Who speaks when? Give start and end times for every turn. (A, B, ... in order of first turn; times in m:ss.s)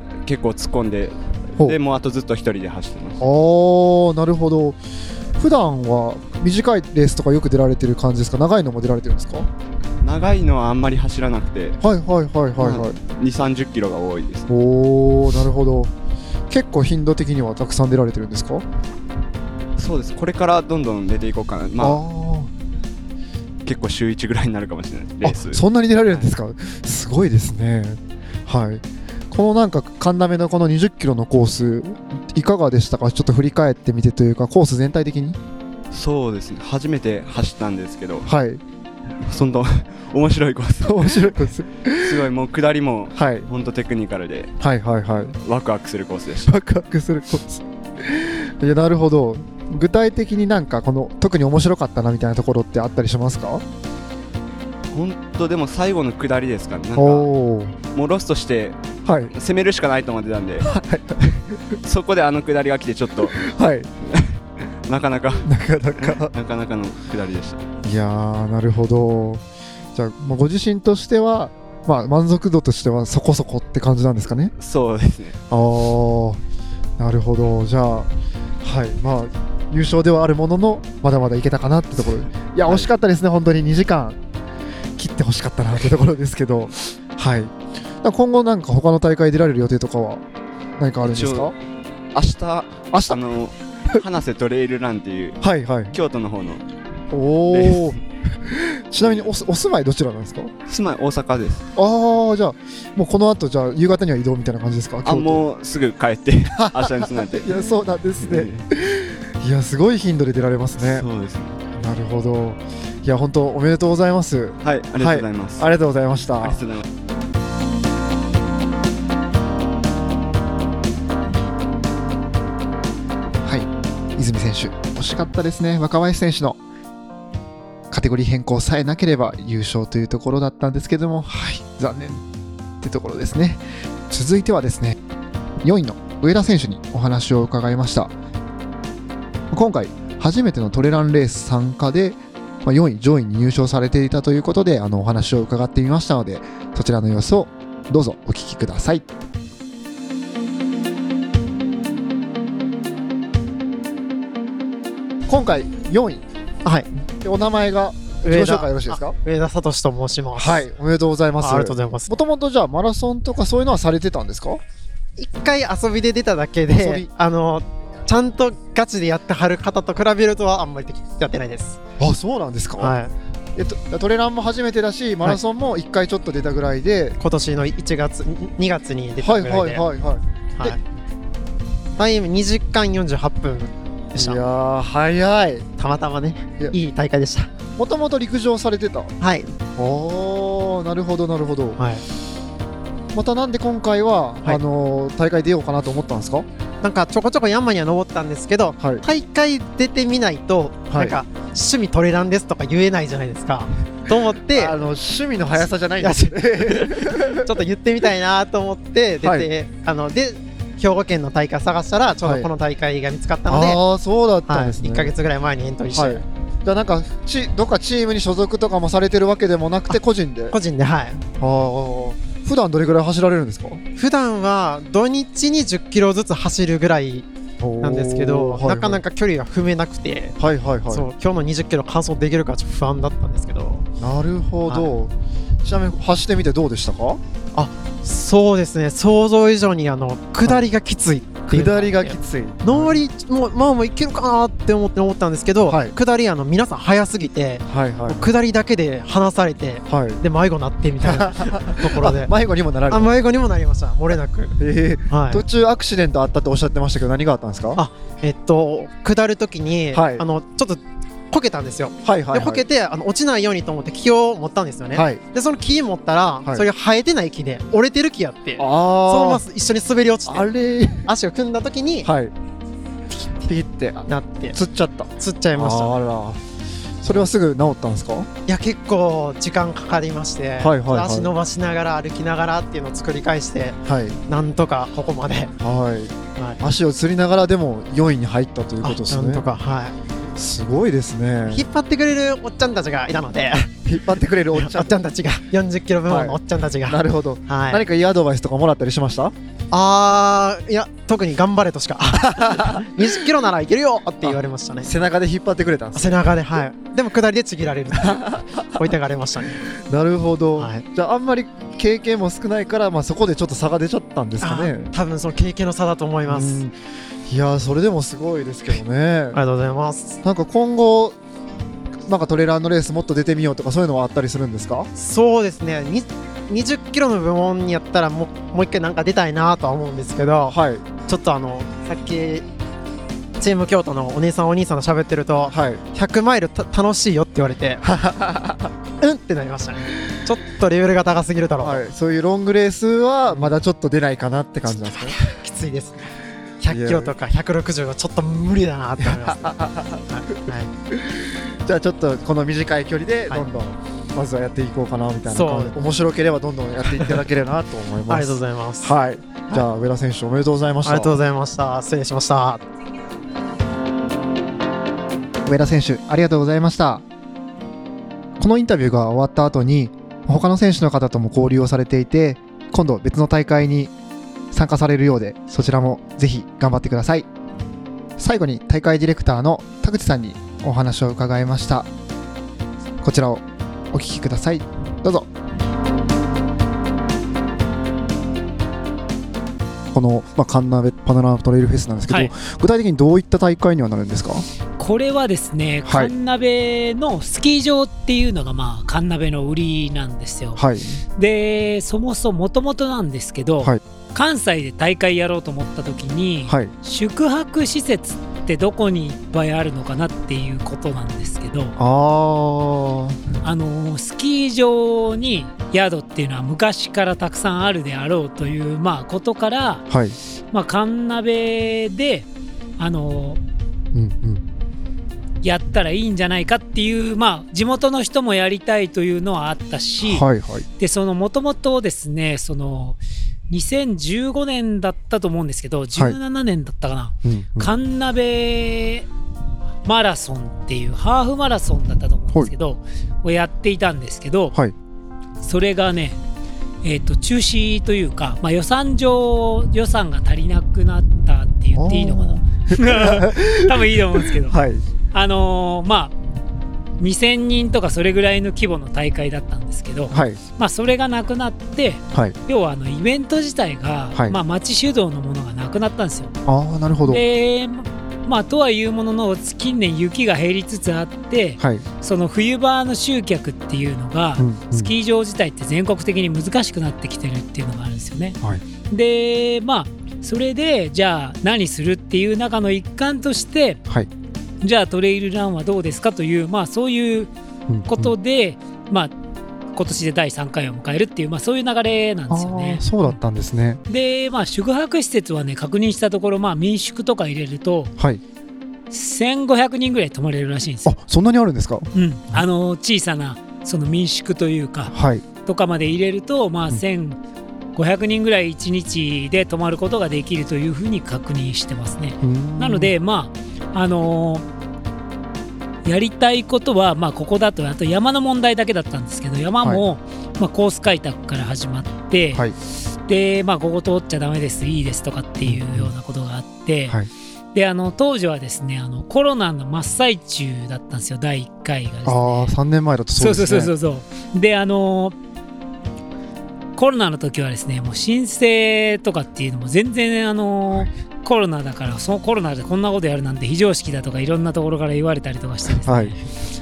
0:00.2-0:03.2 A
0:03.2-0:04.8 B
0:05.4-0:09.5 B
0:10.0-0:11.8 A
0:11.8-0:13.0 B
0:12.6-0:14.5 A
0:14.5-0:15.9 B
0:16.5-0:18.6 B
0:19.8-0:22.0 A
0:21.8-0:22.5 B
0:23.6-0:26.3 A
0:25.2-0:35.4 B
0:35.9-0:38.3 A
0:38.3-0:38.6 B
0:39.2-0:41.4 A
0:40.8-0:42.3 B
0:42.0-0:44.5 A
0:43.1-0:43.5 B
0:44.6-0:45.4 B
0:45.3-0:46.5 A
0:46.5-0:53.6 B
0:54.9-0:57.3 A
0:57.0-0:57.8 B
0:57.9-1:00.7 A
0:59.1-0:59.3 B
1:00.6-1:01.6 B
1:01.8-1:03.4 A
1:03.3-1:03.9 B
1:04.0-1:07.6 A
1:05.4-1:06.3 B
1:07.8-1:09.4 B
1:10.0-1:14.5 B
1:14.6-1:15.4 A
1:15.5-1:16.4 B
1:17.0-1:18.1 B
1:18.6-1:24.2 B
1:22.1-1:22.9 A
1:25.0-1:30.2 B
1:30.8-1:31.5 B
1:31.1-1:31.6 A
1:32.1-1:35.4 A
1:32.9-1:33.2 B
1:35.4-1:36.0 B
1:35.9-1:36.6 A
1:37.1-1:40.5 B
1:37.5-1:38.0 A
1:39.0-1:39.3 A
1:40.7-1:41.7 A
1:41.8-1:45.4 B
1:45.1-1:47.5 A
1:46.5-1:51.1 B
1:48.2-1:48.6 A
1:50.8-1:51.6 A
1:51.7-1:56.6 B
1:54.6-1:55.7 A
1:56.4-1:56.8 A
2:03.4-2:06.6 B
2:07.9-2:12.2 B
2:12.8-2:15.0 B
2:15.6-2:18.1 B
2:19.5-2:29.1 B
2:35.3-2:36.2 B
2:37.2-2:39.2 B
2:38.3-2:40.6 C
2:40.4-2:44.6 B
2:41.4-2:42.2 C
2:45.2-2:51.8 C
2:46.7-2:47.1 B
2:52.0-2:53.0 B
2:52.8-2:53.1 C
2:53.6-2:57.2 B
2:57.2-2:59.8 C
2:59.2-3:00.8 B
3:02.0-3:04.4 C
3:04.2-3:05.7 B
3:05.8-3:07.5 C
3:07.8-3:09.1 B
3:09.2-3:09.6 C
3:09.8-3:11.8 B
3:11.8-3:12.0 C
3:13.1-3:16.5 B
3:16.8-3:24.8 C
3:18.8-3:19.0 B
3:20.9-3:21.2 B
3:24.5-3:27.6 B
3:25.6-3:33.8 C
3:29.2-3:29.5 B
3:32.2-3:32.5 B
3:33.5-3:35.1 B
3:34.5-3:36.2 C
3:35.9-3:40.6 B
3:40.5-3:41.2 C
3:41.4-3:43.8 B
3:44.0-3:47.3 C
3:47.6-3:49.0 B
3:47.8-3:50.4 C
3:50.4-3:51.1 B
3:50.9-3:53.9 C
3:54.0-3:57.2 B
3:57.6-4:12.3 C
4:01.5-4:03.0 B
4:05.6-4:05.9 B
4:07.7-4:08.3 B
4:09.9-4:10.2 B
4:11.0-4:13.1 B
4:12.9-4:14.6 C
4:14.6-4:17.8 B
4:15.1-4:15.4 C
4:17.8-4:30.5 C
4:19.9-4:20.2 B
4:22.0-4:22.6 B
4:24.9-4:25.2 B
4:28.6-4:29.4 B
4:30.2-4:31.1 B
4:31.1-4:32.1 C
4:32.0-4:32.3 B
4:33.4-4:36.4 B
4:34.1-4:34.6 C
4:35.2-4:36.1 C
4:37.0-4:38.3 B
4:38.5-4:45.5 C
4:40.6-4:41.3 B
4:43.8-4:44.2 B
4:45.6-4:49.5 B
4:48.8-4:50.0 C
4:50.3-4:51.7 B
4:51.5-4:53.7 C
4:53.8-4:55.0 B
4:54.5-4:57.8 C
4:56.1-4:59.4 B
4:59.7-5:04.9 C
5:02.1-5:03.1 B
5:04.2-5:06.4 B
5:06.0-5:09.6 C
5:08.0-5:08.9 B
5:09.8-5:14.9 B
5:10.6-5:10.8 C
5:14.4-5:16.6 C
5:16.3-5:16.8 B
5:17.3-5:19.4 B
5:19.3-5:20.2 C
5:20.2-5:21.2 B
5:22.1-5:24.9 B
5:25.0-5:32.4 C
5:30.5-5:30.9 B
5:33.4-5:37.8 C
5:35.5-5:35.8 B
5:37.8-5:38.7 B
5:39.0-5:41.8 C
5:41.6-5:45.2 B
5:43.3-5:43.5 C
5:44.7-5:46.1 C
5:46.6-5:50.7 C
5:46.7-5:47.2 B
5:49.0-6:01.2 B
5:55.3-5:55.9 C
5:56.9-5:57.2 C
5:58.1-5:58.9 C
6:00.8-6:02.6 C
6:05.4-6:07.0 B
6:08.4-6:13.9 B
6:14.5-6:17.3 B
6:18.2-6:21.9 B
6:23.0-6:25.3 B
6:29.9-6:34.5 B
6:34.8-6:40.6 D
6:35.8-6:36.1 B
6:40.6-6:41.0 B
6:41.2-6:51.8 D
6:51.8-6:53.3 B
6:53.4-6:59.9 D
6:59.9-7:00.2 B
7:00.5-7:02.3 D
7:02.8-7:03.4 D
7:03.9-7:04.4 B
7:05.4-7:10.3 D
7:10.0-7:10.7 B
7:10.8-7:19.1 D
7:17.2-7:17.7 B
7:19.8-7:24.6 D
7:25.4-7:26.2 D
7:26.8-7:34.6 D
7:31.7-7:34.8 B
7:35.1-7:36.1 D
7:37.0-7:46.4 D
7:40.1-7:40.4 B
7:42.1-7:42.4 B
7:46.5-7:47.2 B
7:47.0-7:58.4 D
7:51.6-7:51.9 B
7:54.4-7:54.9 B
7:58.9-8:03.8 D
8:04.6-8:07.3 D
8:07.7-8:08.2 B
8:07.9-8:09.1 D
8:09.7-8:13.2 D
8:12.3-8:13.8 B
8:13.9-8:17.9 D
8:18.9-8:20.9 D
8:20.8-8:21.9 B
8:21.9-8:27.2 D
8:24.9-8:25.2 B
8:27.8-8:34.5 D
8:32.2-8:32.9 B
8:35.8-8:47.0 D
8:45.5-8:45.9 B
8:47.5-8:52.6 D
8:52.1-8:53.7 B
8:53.2-8:55.2 D
8:56.8-9:06.2 D
9:05.8-9:06.2 B